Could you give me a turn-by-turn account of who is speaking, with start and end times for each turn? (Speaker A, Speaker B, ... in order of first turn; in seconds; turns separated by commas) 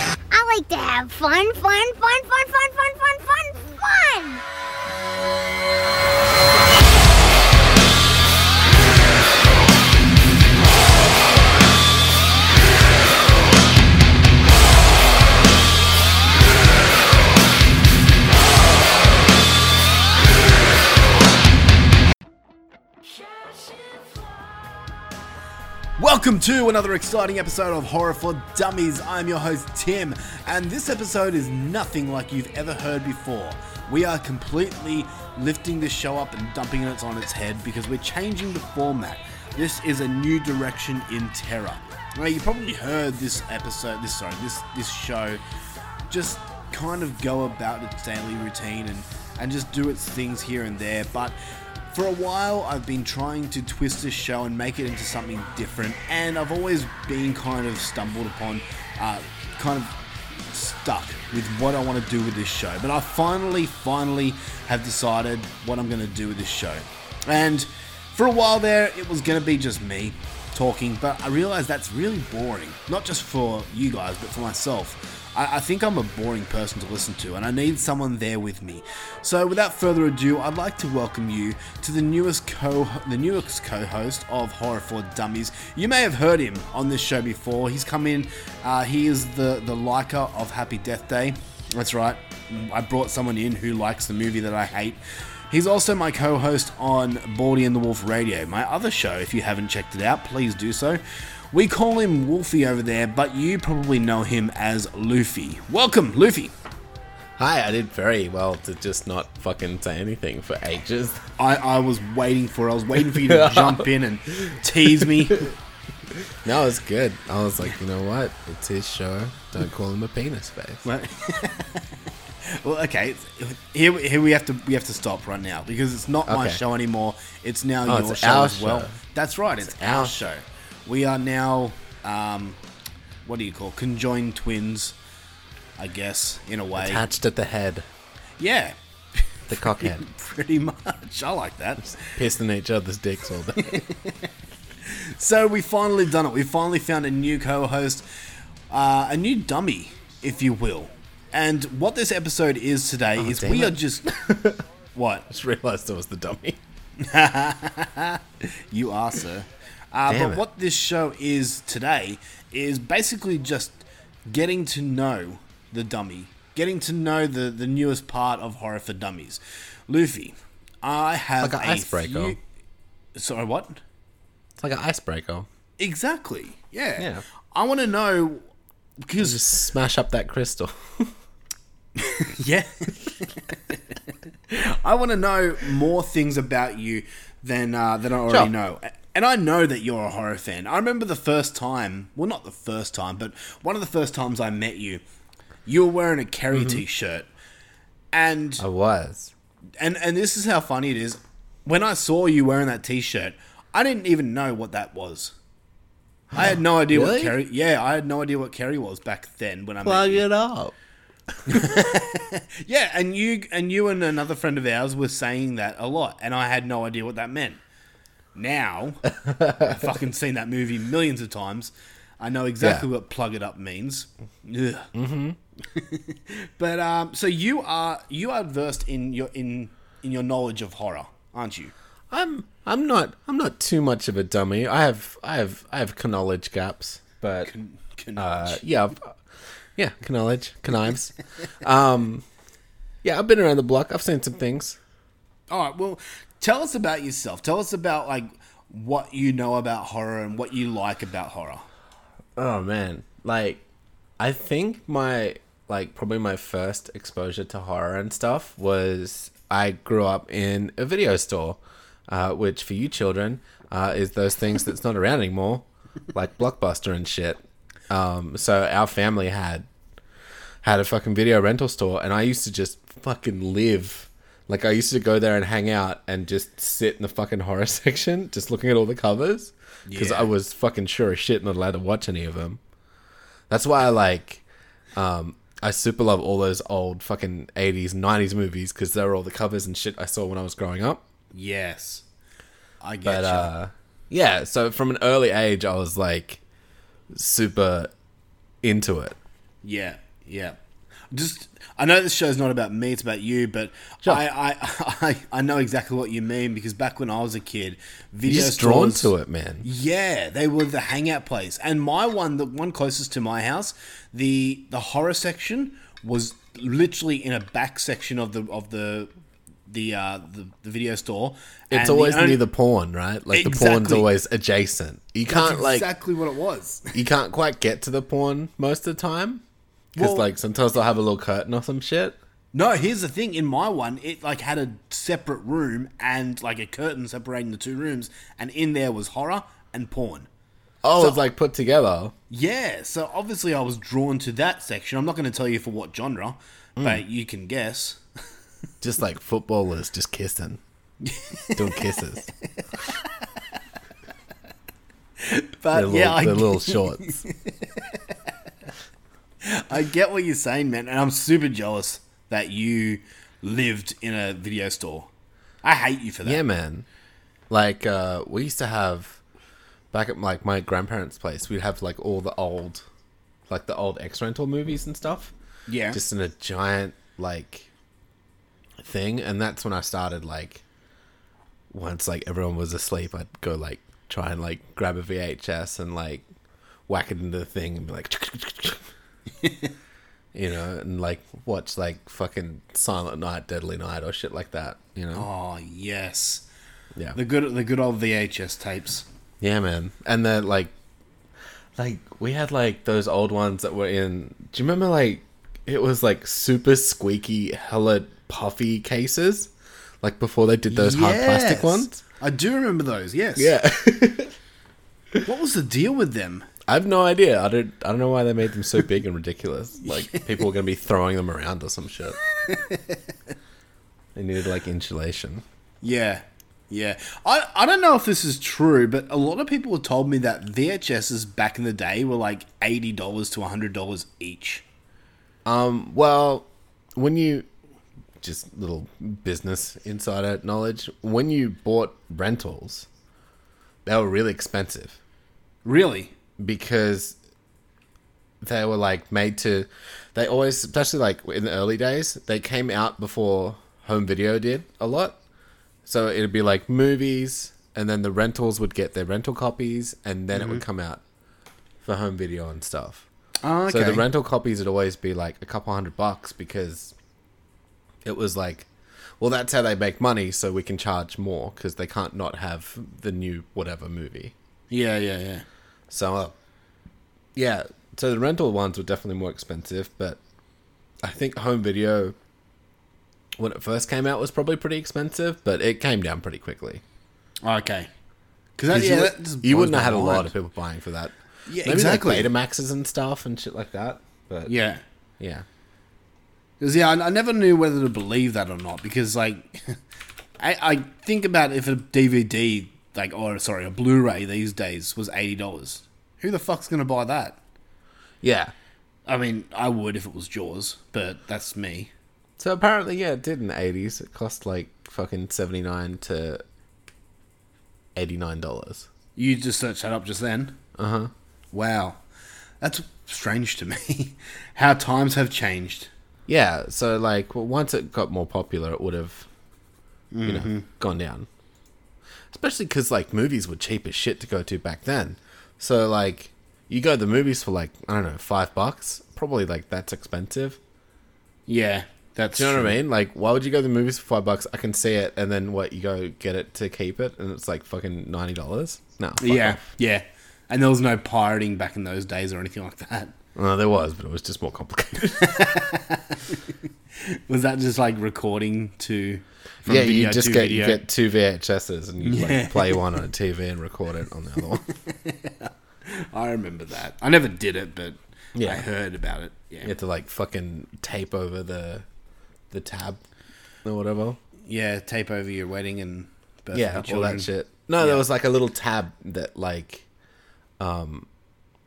Speaker A: 0.3-4.4, Speaker B: 26.0-45.4, Speaker B: 46.1-51.4, Speaker B: 51.9-59.9, Speaker B: 60.5-106.5, Speaker C: 107.4-111.2, Speaker B: 111.4-115.5, Speaker C: 113.1-113.9, Speaker C: 115.0-115.4, Speaker C: 116.3-120.9, Speaker B: 120.8-121.9, Speaker B: 122.5-132.6, Speaker C: 126.3-126.6, Speaker C: 127.8-129.0, Speaker C: 129.6-130.2, Speaker B: 133.2-134.9, Speaker B: 135.8-137.1, Speaker C: 136.8-137.9, Speaker B: 138.4-142.1, Speaker C: 139.5-140.0, Speaker C: 141.9-143.8, Speaker B: 143.6-144.3, Speaker B: 144.8-148.1, Speaker B: 148.7-154.1, Speaker C: 153.2-154.6, Speaker B: 154.9-155.3, Speaker C: 155.3-156.6, Speaker B: 157.0-172.4, Speaker C: 160.1-160.4, Speaker C: 171.4-172.4, Speaker B: 173.2-173.8, Speaker C: 174.6-175.5, Speaker B: 175.8-178.4, Speaker C: 177.0-177.2, Speaker B: 179.0-179.4, Speaker C: 179.2-181.1, Speaker B: 182.0-183.8, Speaker B: 184.5-195.0, Speaker B: 195.7-197.3, Speaker C: 196.5-196.8, Speaker B: 198.1-198.7, Speaker C: 198.6-199.3, Speaker B: 199.8-205.3, Speaker C: 206.3-207.3, Speaker B: 206.3-210.3, Speaker C: 209.8-210.8, Speaker C: 211.5-211.9, Speaker B: 211.5-217.6, Speaker B: 218.3-224.9, Speaker C: 219.2-219.8, Speaker C: 222.6-222.9, Speaker C: 224.9-225.4, Speaker B: 225.7-231.7, Speaker C: 232.1-237.5, Speaker B: 237.4-238.6, Speaker C: 238.2-239.2, Speaker C: 239.8-242.2, Speaker C: 243.0-244.8, Speaker B: 245.5-251.7, Speaker C: 252.4-253.6, Speaker C: 254.2-267.4, Speaker C: 267.9-269.7, Speaker C: 270.6-282.6, Speaker B: 279.9-280.3, Speaker C: 283.5-284.4, Speaker C: 284.9-291.0, Speaker B: 291.3-292.1, Speaker B: 292.8-293.5, Speaker C: 293.1-296.4, Speaker C: 297.1-297.9, Speaker C: 298.6-299.2, Speaker B: 299.6-300.6, Speaker B: 301.1-309.1, Speaker C: 308.2-309.7, Speaker B: 309.6-319.1, Speaker B: 319.7-322.4, Speaker C: 321.7-325.9, Speaker B: 323.3-324.1, Speaker B: 325.3-327.0, Speaker C: 326.9-329.4, Speaker B: 329.9-330.2, Speaker C: 330.0-332.2, Speaker B: 332.5-340.3, Speaker C: 340.8-342.1, Speaker B: 342.3-348.0, Speaker C: 346.8-347.0, Speaker C: 348.8-350.6, Speaker B: 351.0-352.0, Speaker C: 351.6-352.3, Speaker B: 355.2-358.3, Speaker C: 355.7-357.2, Speaker B: 359.4-365.1, Speaker B: 365.6-366.4, Speaker C: 366.2-366.9, Speaker C: 367.5-369.2, Speaker C: 369.9-372.9, Speaker C: 373.5-375.3, Speaker B: 375.7-376.0, Speaker C: 375.9-377.7, Speaker C: 378.8-380.6, Speaker C: 381.7-386.2, Speaker C: 386.9-388.9, Speaker B: 389.4-389.7, Speaker C: 390.3-395.3, Speaker B: 395.1-396.4, Speaker B: 397.1-399.1, Speaker C: 399.4-400.7, Speaker C: 401.8-409.5, Speaker C: 410.0-412.0, Speaker B: 410.7-413.5, Speaker C: 413.4-414.3, Speaker B: 415.2-416.5, Speaker C: 416.7-422.2, Speaker B: 419.8-420.3, Speaker B: 422.5-423.0, Speaker C: 424.1-425.4, Speaker B: 425.8-434.6, Speaker C: 435.4-437.5, Speaker C: 438.2-442.9, Speaker C: 443.9-445.0, Speaker B: 445.6-446.1, Speaker C: 446.4-447.2, Speaker C: 448.4-455.2, Speaker C: 455.9-461.0, Speaker B: 460.3-460.6, Speaker C: 461.8-463.1, Speaker B: 463.4-464.1, Speaker C: 463.7-466.9, Speaker C: 468.0-468.7, Speaker C: 469.2-474.3, Speaker B: 474.7-475.4, Speaker C: 475.9-476.4, Speaker C: 477.4-480.2, Speaker C: 481.0-482.2, Speaker C: 483.4-486.8, Speaker B: 487.4-487.9, Speaker B: 488.6-490.3, Speaker C: 488.7-494.5, Speaker B: 491.5-492.3, Speaker B: 494.5-494.8, Speaker C: 495.2-495.4, Speaker B: 496.6-499.8, Speaker B: 500.4-507.4, Speaker C: 508.2-508.5, Speaker B: 509.1-511.9, Speaker C: 512.4-516.4, Speaker C: 518.0-518.9, Speaker B: 519.2-520.6, Speaker C: 520.8-521.1, Speaker B: 521.5-522.0, Speaker B: 522.6-525.9, Speaker C: 526.3-529.3, Speaker B: 530.1-530.7, Speaker C: 530.2-531.3, Speaker C: 532.3-540.6, Speaker B: 541.5-542.8, Speaker C: 542.4-549.7, Speaker B: 549.2-553.1, Speaker C: 553.4-555.6, Speaker B: 555.2-556.4, Speaker B: 557.0-560.8, Speaker C: 559.6-564.6, Speaker B: 562.0-562.9, Speaker B: 564.7-569.7, Speaker C: 568.4-568.7, Speaker C: 569.6-571.9, Speaker C: 572.5-573.0, Speaker C: 573.6-574.2, Speaker B: 574.5-578.0, Speaker C: 576.5-579.9, Speaker C: 580.6-581.1